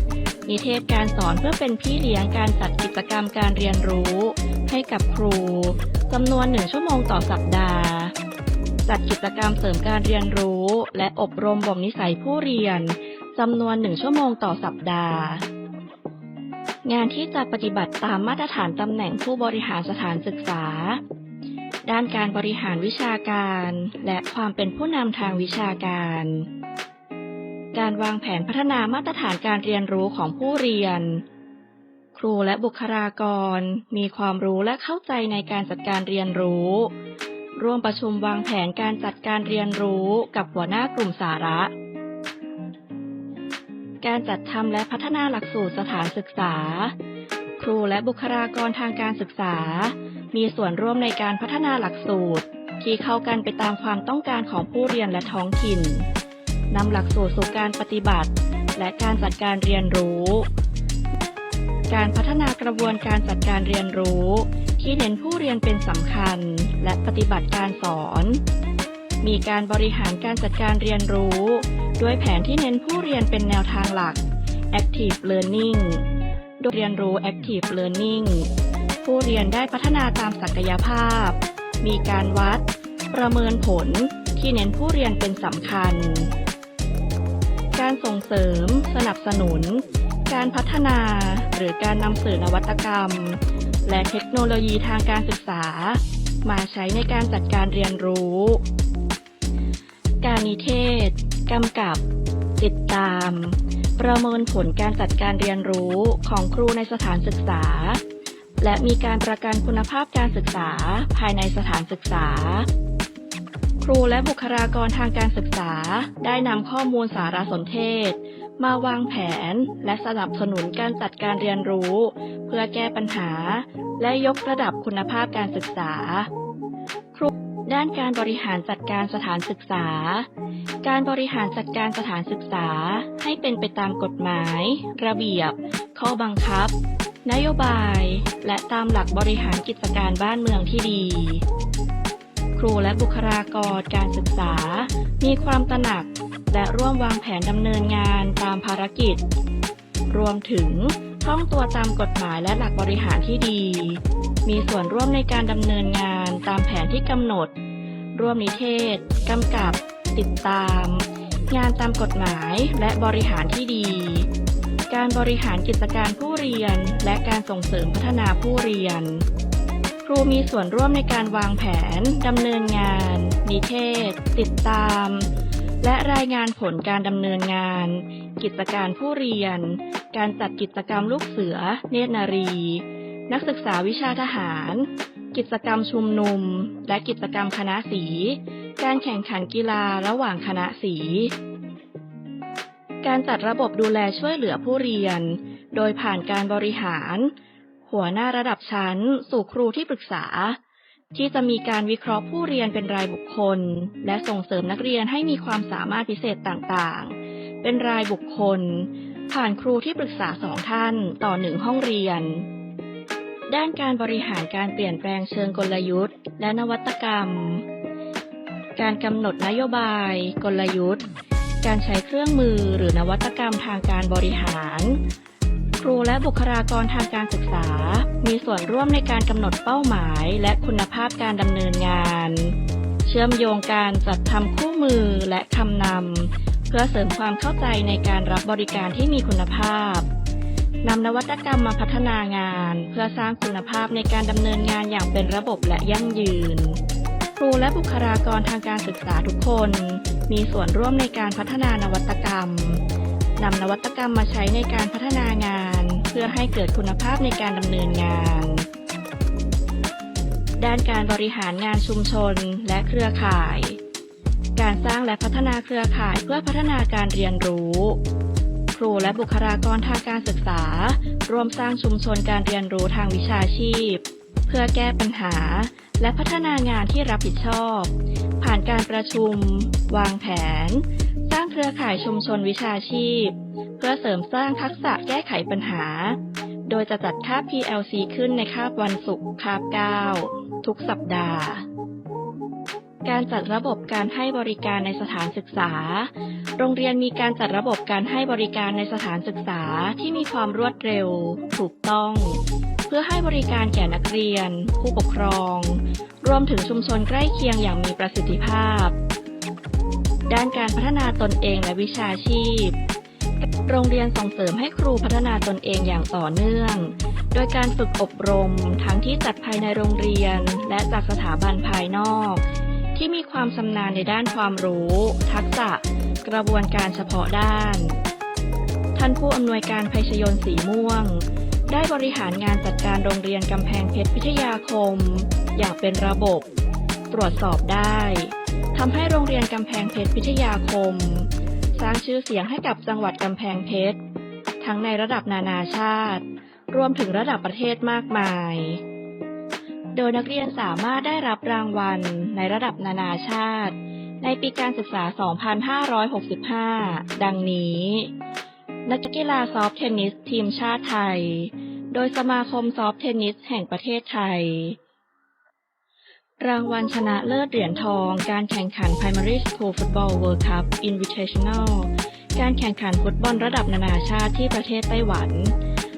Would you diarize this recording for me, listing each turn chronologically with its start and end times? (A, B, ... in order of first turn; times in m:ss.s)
0:00.5-0:08.1 A
0:08.9-0:15.5 A
0:16.8-0:21.0 A
0:21.9-0:26.5 A
0:27.7-0:31.2 A
0:32.2-0:36.9 A
0:37.6-0:41.7 A
0:44.0-0:47.0 A
0:47.6-0:56.1 A
0:56.7-1:00.5 A
1:01.9-1:08.4 A
1:09.2-1:14.2 A
1:14.7-1:16.0 A
1:16.6-1:18.5 A
1:19.0-1:26.3 A
1:27.8-1:38.6 A
1:40.2-1:42.0 A
1:42.6-1:48.0 A
1:48.6-1:52.7 A
1:53.8-2:06.3 A
2:07.1-2:10.3 A
2:10.8-2:21.4 A
2:22.6-2:29.2 A
2:30.1-2:37.5 A
2:38.2-2:44.3 A
2:44.9-2:49.2 A
2:50.0-2:55.3 A
2:55.8-3:11.3 A
3:13.0-3:17.3 A
3:17.9-3:20.6 A
3:21.1-3:32.5 A
3:33.5-3:37.7 A
3:38.8-3:41.0 A
3:41.6-3:45.0 A
3:45.8-4:00.1 A
4:00.8-4:06.8 A
4:07.4-4:12.8 A
4:13.4-4:18.7 A
4:20.6-4:23.8 A
4:24.6-4:28.0 A
4:28.7-4:51.6 A
4:53.0-5:09.0 A
5:10.3-5:12.8 A
5:13.4-5:28.0 A
5:29.0-5:36.5 A
5:37.1-5:44.0 A
5:44.6-5:48.8 A
5:49.9-5:58.1 A
5:58.9-6:04.8 A
6:06.4-6:15.6 A